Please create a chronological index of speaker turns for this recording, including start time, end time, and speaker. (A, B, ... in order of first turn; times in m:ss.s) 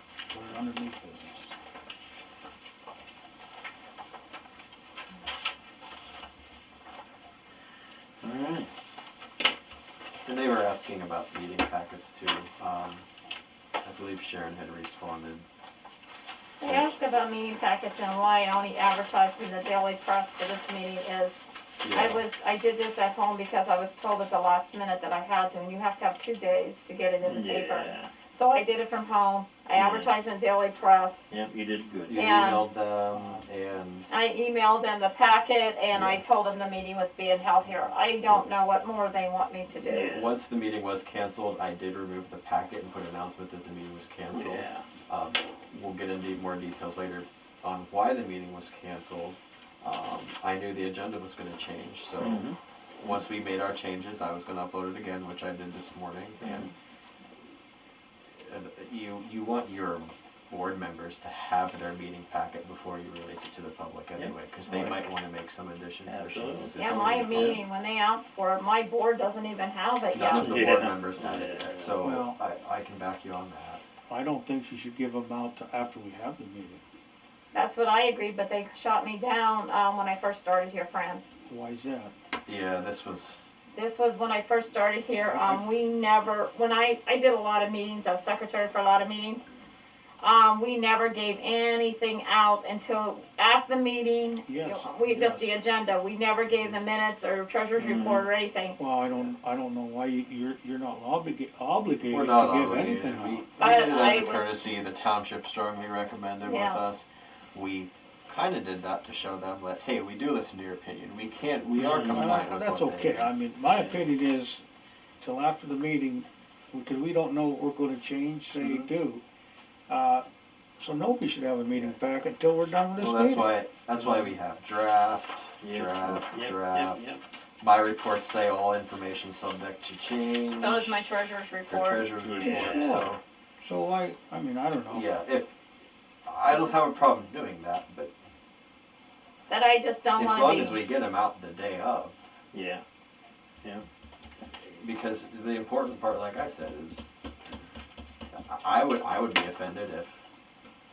0:00.3-0:01.5 A
0:08.2-0:08.7 B
0:10.2-0:13.0 C
0:13.8-0:15.4 C
0:16.6-0:31.2 D
0:21.8-0:22.2 C
0:27.2-0:28.1 B
0:29.8-0:30.1 B
0:31.3-0:32.5 B
0:32.1-0:34.1 C
0:32.1-0:32.7 D
0:33.1-0:33.4 A
0:34.1-0:40.2 D
0:35.9-0:36.2 C
0:39.8-0:40.3 B
0:40.0-0:52.5 C
0:44.3-0:44.9 B
0:52.2-0:52.6 B
0:53.0-0:56.7 C
0:56.4-0:56.7 B
0:58.4-1:07.6 C
1:04.1-1:05.0 B
1:06.1-1:07.6 B
1:06.8-1:10.7 D
1:10.1-1:13.8 C
1:10.3-1:12.0 B
1:12.0-1:12.4 A
1:14.1-1:16.8 A
1:17.5-1:21.2 D
1:21.5-1:22.1 A
1:22.4-1:23.4 C
1:23.7-1:29.5 D
1:25.2-1:25.6 A
1:30.2-1:38.8 D
1:34.5-1:35.6 A
1:37.8-1:38.2 B
1:38.8-1:43.5 A
1:42.1-1:53.3 C
1:43.6-1:44.6 D
1:46.4-1:47.0 D
1:51.8-1:52.4 B
1:51.8-1:54.6 A
1:55.2-1:59.2 A
1:58.6-1:58.9 B
1:59.9-2:00.2 A
2:00.8-2:04.3 A
2:03.0-2:07.0 C
2:05.6-2:07.2 B
2:07.6-2:11.1 C
2:10.5-2:12.1 D
2:11.7-2:13.2 C
2:12.2-2:13.0 B
2:12.4-2:15.1 A
2:14.9-2:15.5 C
2:16.2-2:18.1 C
2:19.5-2:20.8 D
2:20.2-2:22.2 C
2:22.5-2:22.8 B
2:24.6-2:27.1 C
2:28.3-2:30.2 C